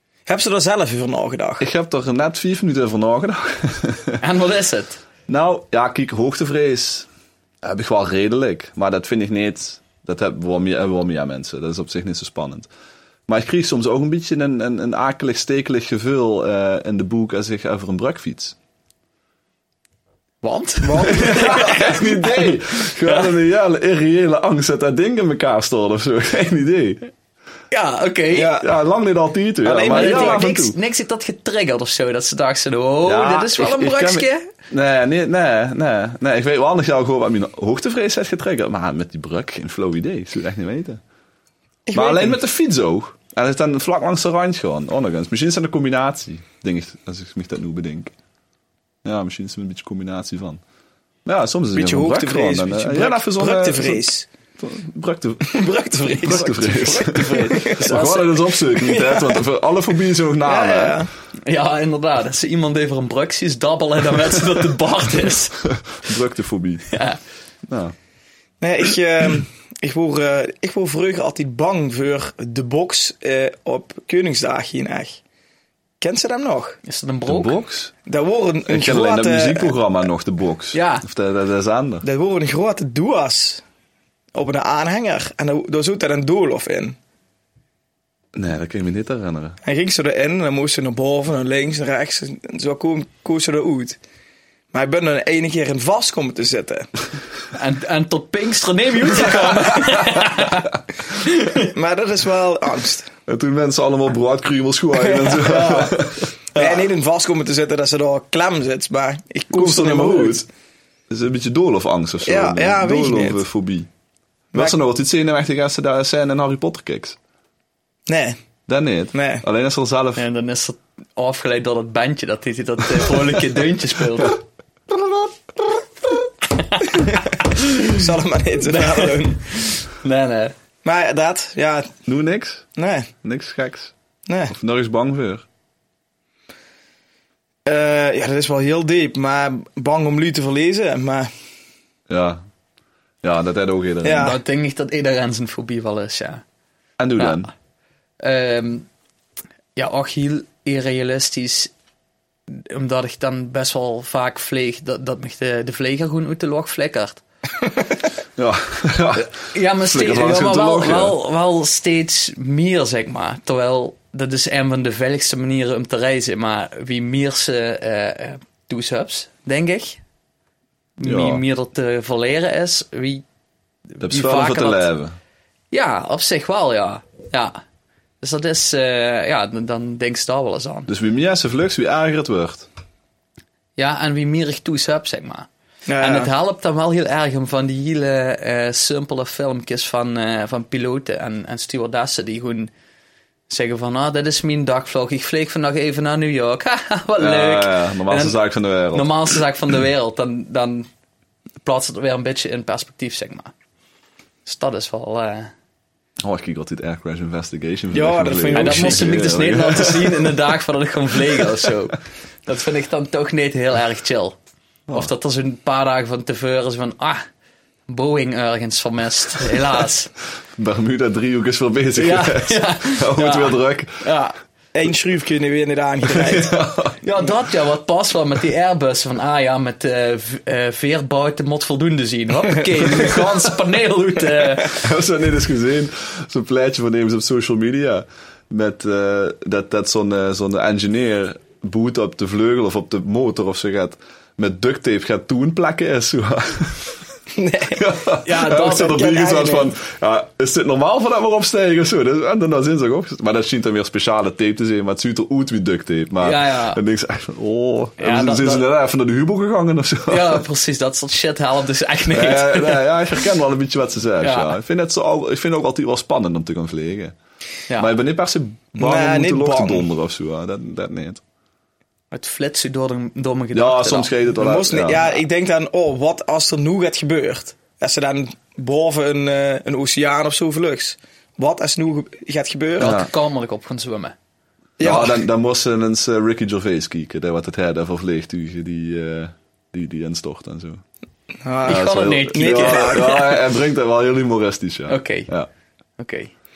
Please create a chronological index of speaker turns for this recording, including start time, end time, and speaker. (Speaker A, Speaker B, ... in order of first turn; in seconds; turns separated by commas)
Speaker A: 0.2-1.6, Speaker B: 1.6-4.2, Speaker C: 4.2-5.0, Speaker B: 5.3-7.1, Speaker B: 7.6-12.7, Speaker B: 13.3-18.6, Speaker C: 20.4-23.3, Speaker A: 20.8-21.7, Speaker B: 21.1-27.1, Speaker C: 27.7-28.6, Speaker A: 28.3-28.6, Speaker B: 28.6-30.8, Speaker A: 29.6-30.5, Speaker C: 29.9-34.5, Speaker B: 33.0-41.0, Speaker A: 41.9-42.4, Speaker B: 41.9-48.1, Speaker B: 49.0-50.6, Speaker B: 51.2-54.1, Speaker A: 51.7-54.3, Speaker B: 54.6-55.6, Speaker A: 55.4-58.0, Speaker B: 56.2-61.0, Speaker C: 57.1-58.9, Speaker A: 60.4-61.1, Speaker C: 61.5-65.6, Speaker B: 65.6-66.9, Speaker C: 66.9-67.2, Speaker B: 67.7-67.9, Speaker A: 68.6-75.2, Speaker A: 76.0-76.8, Speaker C: 76.8-77.6, Speaker B: 77.3-77.9, Speaker A: 78.0-79.8, Speaker B: 78.7-82.0, Speaker C: 80.7-81.0, Speaker A: 82.0-83.6, Speaker A: 84.3-87.0, Speaker B: 88.3-89.6, Speaker A: 89.6-94.0, Speaker A: 94.7-96.9, Speaker C: 97.5-101.7, Speaker A: 101.7-103.1, Speaker B: 103.3-106.8, Speaker A: 104.9-106.0, Speaker A: 106.5-110.4, Speaker B: 109.5-110.5, Speaker B: 111.1-113.9, Speaker A: 112.2-113.4, Speaker B: 114.5-117.2, Speaker A: 118.1-118.4, Speaker B: 118.7-120.2, Speaker A: 119.1-119.4, Speaker C: 120.2-124.4, Speaker B: 124.9-125.3, Speaker C: 126.6-128.1, Speaker A: 127.8-129.4, Speaker C: 128.7-130.5, Speaker A: 130.8-131.9, Speaker B: 132.1-132.7, Speaker A: 132.8-133.1, Speaker B: 133.2-133.9, Speaker A: 134.2-134.5, Speaker B: 134.5-135.4, Speaker A: 137.7-141.3, Speaker B: 142.1-142.4, Speaker B: 143.2-144.3, Speaker A: 144.0-144.4, Speaker C: 144.1-146.4, Speaker B: 147.0-147.5, Speaker C: 148.2-148.9, Speaker C: 149.8-151.7, Speaker C: 152.5-157.2, Speaker B: 158.4-161.2, Speaker C: 159.2-170.0, Speaker C: 171.0-173.2, Speaker B: 171.0-171.4, Speaker C: 174.0-174.9, Speaker B: 174.0-175.2, Speaker C: 175.7-177.6, Speaker C: 178.2-180.9, Speaker B: 180.9-182.7, Speaker C: 183.8-185.5, Speaker A: 185.9-186.3, Speaker C: 186.0-192.7, Speaker C: 193.5-198.4, Speaker B: 197.2-199.2, Speaker C: 198.9-200.9, Speaker C: 201.6-203.5, Speaker C: 204.4-205.5, Speaker B: 206.2-210.3, Speaker A: 207.9-209.2, Speaker C: 208.5-214.3, Speaker C: 214.9-217.2, Speaker C: 217.9-220.1, Speaker B: 220.6-224.0, Speaker C: 221.9-224.3, Speaker A: 224.7-226.6, Speaker B: 226.1-227.0, Speaker C: 227.0-234.8, Speaker B: 234.6-246.9, Speaker A: 247.3-247.8, Speaker B: 247.7-260.4, Speaker C: 248.2-249.1, Speaker A: 248.6-249.7, Speaker C: 256.2-256.8, Speaker C: 258.0-258.6, Speaker C: 260.1-263.2, Speaker B: 262.1-267.1, Speaker C: 264.2-264.5, Speaker B: 267.8-271.2, Speaker A: 268.8-269.9, Speaker C: 272.1-274.1, Speaker B: 273.5-275.0, Speaker A: 274.4-283.0, Speaker B: 282.8-283.1, Speaker C: 282.8-284.1, Speaker A: 284.8-285.2, Speaker B: 284.8-290.8, Speaker A: 291.4-293.2, Speaker C: 291.6-293.3, Speaker B: 291.6-295.5, Speaker C: 294.9-295.3, Speaker C: 296.0-296.3